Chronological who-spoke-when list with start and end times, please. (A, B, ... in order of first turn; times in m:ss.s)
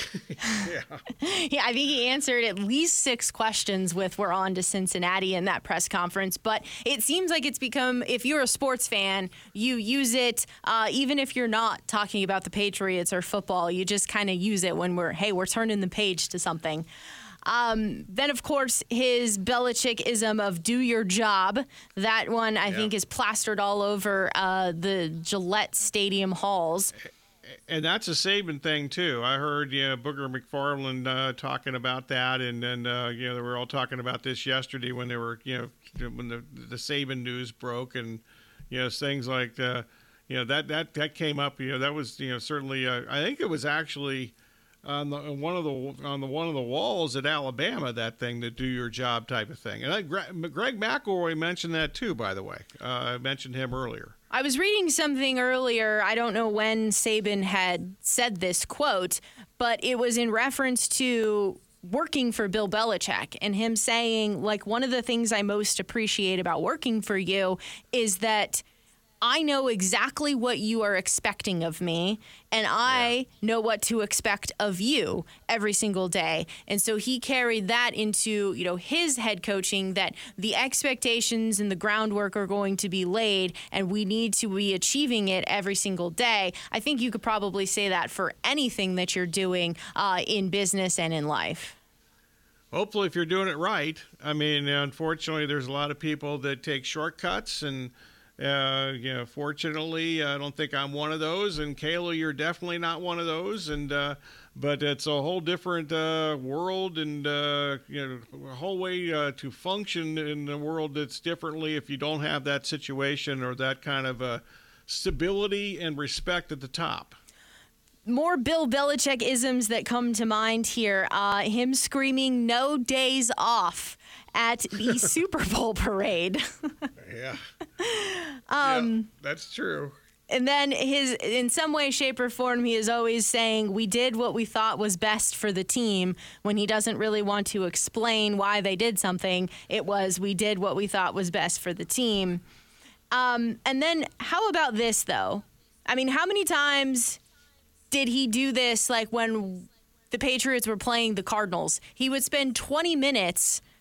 0:00.4-0:01.0 A
0:01.2-0:16.9 B
0:17.4-0:26.9 B
0:27.7-0:54.1 A
0:54.3-1:08.6 B
1:09.2-1:31.8 B
1:32.7-1:57.2 A
1:58.0-2:06.9 B
2:07.0-2:07.4 A
2:07.8-2:09.1 B
2:08.6-2:09.9 A
2:10.3-2:22.4 B
2:23.1-2:27.2 B
2:27.9-2:33.6 B